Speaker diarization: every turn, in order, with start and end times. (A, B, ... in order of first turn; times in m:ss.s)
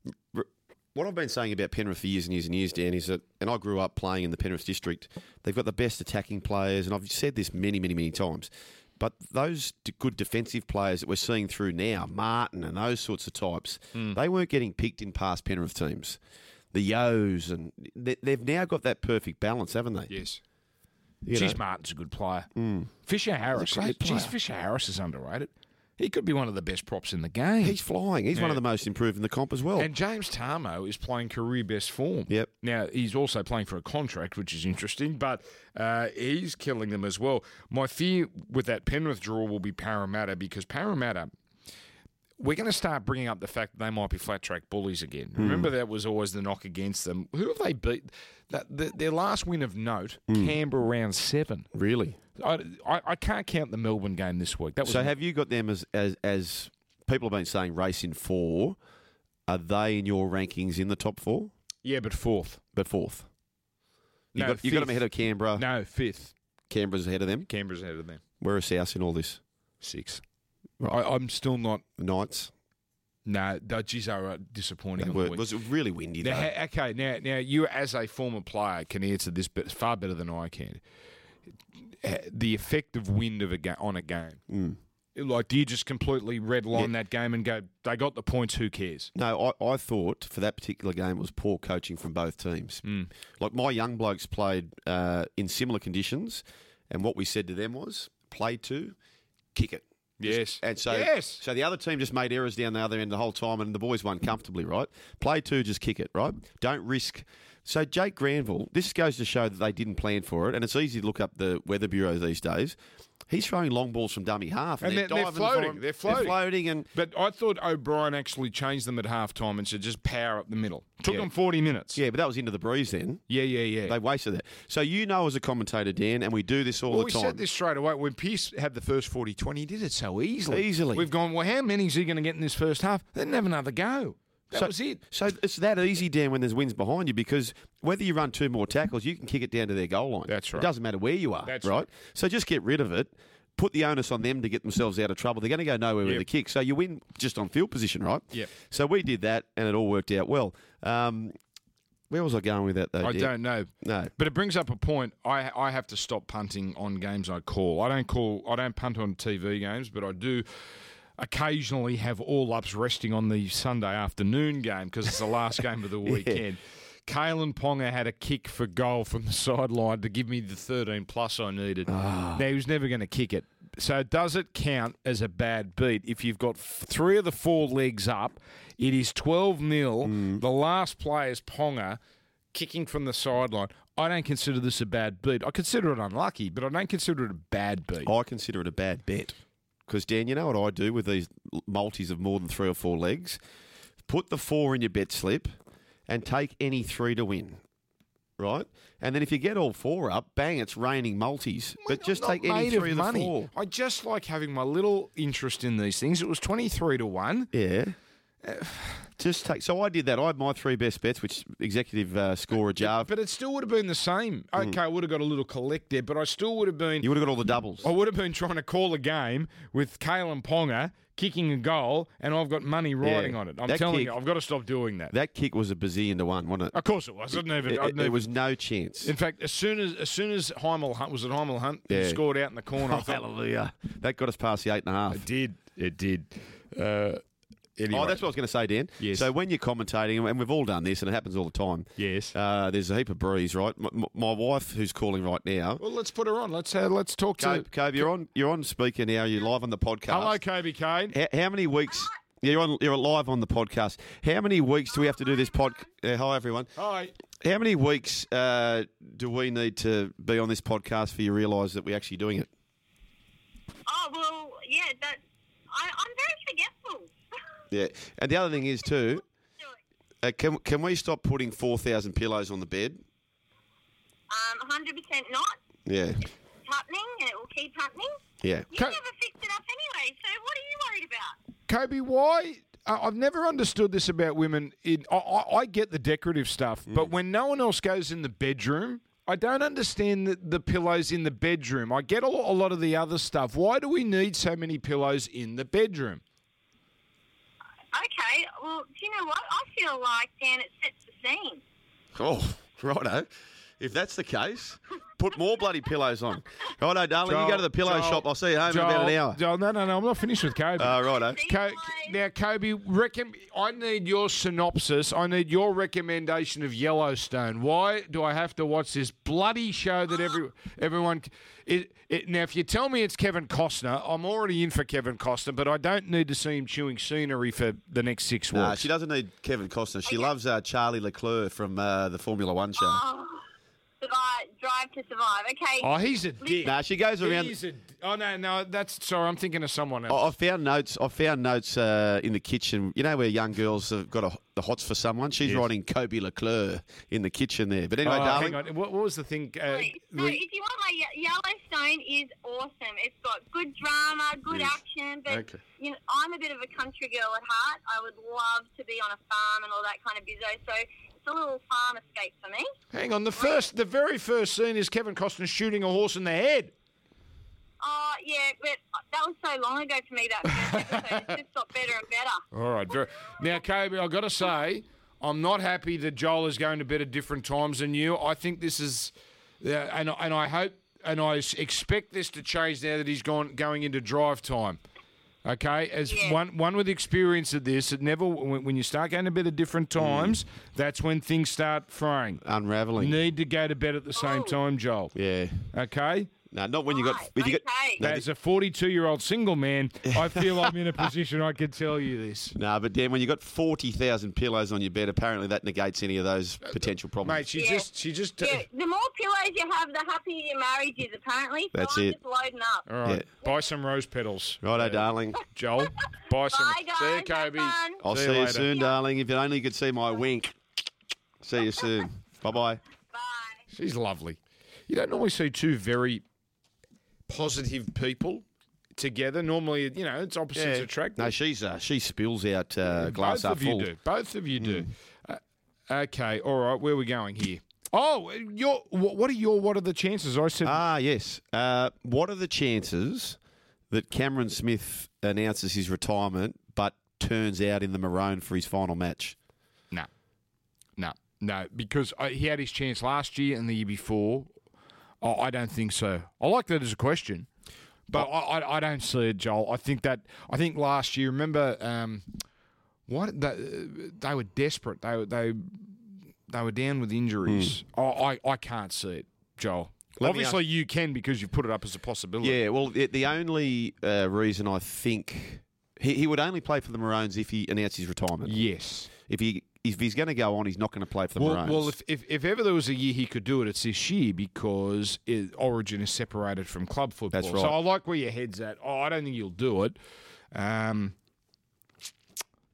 0:00.3-0:16.2 A
0:16.7-0:20.1 A
0:20.1-0:20.4 B
0:21.2-0:21.6 A
0:21.3-0:22.5 B
0:22.6-0:22.9 A
0:23.0-0:27.8 B
0:23.5-0:24.3 A
0:27.6-0:29.9 A
0:28.3-0:28.6 B
0:29.8-0:41.3 B
0:42.4-0:51.7 B
0:45.4-0:45.7 A
0:50.3-0:50.6 A
0:51.7-0:52.2 A
0:52.4-0:55.1 B
0:54.8-0:58.8 A
0:59.5-1:01.5 A
1:01.8-1:02.6 B
1:02.7-1:03.3 A
1:04.3-1:05.0 B
1:04.3-1:05.6 A
1:05.6-1:06.3 B
1:06.7-1:07.5 A
1:07.5-1:08.2 B
1:08.4-1:09.4 A
1:09.8-1:10.2 B
1:10.9-1:11.8 B
1:12.0-1:12.5 A
1:13.2-1:15.4 B
1:15.0-1:16.5 A
1:16.2-1:20.8 B
1:22.0-1:24.4 B
1:24.5-1:24.8 A
1:25.1-1:29.1 B
1:29.1-1:32.8 A
1:32.8-1:33.1 B
1:33.4-1:39.0 A
1:39.5-1:52.8 A
1:40.2-1:41.4 B
1:53.3-1:56.9 A
1:54.8-1:56.4 B
1:56.9-2:02.0 B
2:01.9-2:03.2 A
2:03.3-2:04.0 B
2:03.8-2:07.4 A
2:06.9-2:15.0 B
2:10.5-2:11.1 A
2:14.5-2:31.3 A
2:20.3-2:20.7 B
2:21.4-2:21.8 B
2:32.1-2:34.1 A
2:33.0-2:40.4 B
2:41.2-3:02.0 B
2:46.0-2:46.4 A
2:51.9-2:52.4 A
3:00.0-3:00.4 A
3:02.5-3:08.1 B
3:08.0-3:13.4 A
3:14.1-3:15.5 A
3:16.1-3:17.6 A
3:18.4-3:23.5 A
3:21.8-3:27.5 B
3:27.5-3:28.0 A
3:28.4-3:29.1 B
3:29.2-3:33.1 A
3:32.8-3:37.1 B
3:37.0-3:37.9 A
3:37.8-3:45.1 B
3:43.0-3:44.2 A
3:45.1-3:46.8 A
3:46.7-3:48.2 B
3:47.3-3:49.1 A
3:49.0-3:53.2 B
3:51.9-3:52.2 A
3:52.7-3:55.2 A
3:55.1-3:57.2 B
3:57.8-3:58.2 B
3:57.9-4:05.8 A
3:59.0-3:59.3 B
4:02.0-4:02.3 B
4:05.8-4:08.1 B
4:07.4-4:10.4 A
4:10.1-4:11.1 B
4:11.1-4:16.7 A
4:14.9-4:15.8 C
4:16.8-4:17.1 B
4:17.4-4:22.5 A
4:23.9-4:25.2 C
4:25.7-4:27.1 C
4:27.7-4:29.2 A
4:30.2-4:33.0 A
4:34.3-4:35.6 C
4:35.8-4:36.2 A
4:36.6-4:38.2 C
4:38.4-4:38.7 A
4:38.7-4:41.4 C
4:41.7-4:56.2 B
4:57.9-5:01.6 C
5:02.1-5:09.4 A
5:07.2-5:28.9 B
5:10.8-5:11.4 A
5:11.1-5:12.2 C
5:28.5-5:33.0 A
5:30.0-5:30.3 C
5:32.8-5:33.4 C
5:34.0-5:36.7 C
5:35.8-5:40.3 B
5:36.6-5:37.6 A
5:40.1-5:48.6 A
5:48.0-5:50.4 B
5:49.7-6:02.7 C
5:55.3-5:55.6 B
6:02.9-6:06.7 B
6:03.4-6:03.7 C
6:07.8-6:12.4 C
6:10.4-6:11.4 B
6:12.5-6:24.8 B
6:25.4-6:32.4 B
6:26.1-6:26.4 C
6:30.0-6:30.4 A
6:32.4-6:33.2 A
6:33.0-6:35.1 B
6:34.2-6:34.6 C
6:35.1-6:35.7 A
6:35.7-6:36.3 B
6:36.5-6:38.2 A
6:36.9-6:38.0 C
6:38.0-6:42.6 B
6:40.1-6:40.7 A
6:42.5-6:47.5 A
6:46.6-6:48.6 B
6:47.5-6:47.9 C
6:48.4-6:52.9 C
6:51.7-6:52.2 A
6:52.8-6:58.7 B
6:54.6-6:55.4 A
6:56.4-6:58.0 C
6:58.0-7:00.6 A
6:58.7-6:59.0 C
7:01.4-7:02.8 A
7:03.1-7:03.6 C
7:03.7-7:06.2 B
7:07.3-7:11.3 B
7:10.5-7:13.9 A
7:12.9-7:20.8 B
7:14.6-7:14.9 A
7:20.6-7:23.4 A
7:23.9-7:29.4 A
7:31.0-7:34.5 B
7:35.2-7:37.5 B
7:38.1-7:42.3 B
7:43.1-7:46.0 B
7:46.5-7:52.6 B
7:47.4-7:47.8 A
7:50.2-7:50.6 A
7:52.4-7:58.6 A
7:58.4-7:59.1 B
7:59.2-8:01.9 A
8:01.4-8:10.0 B
8:07.3-8:07.8 A
8:10.5-8:11.1 B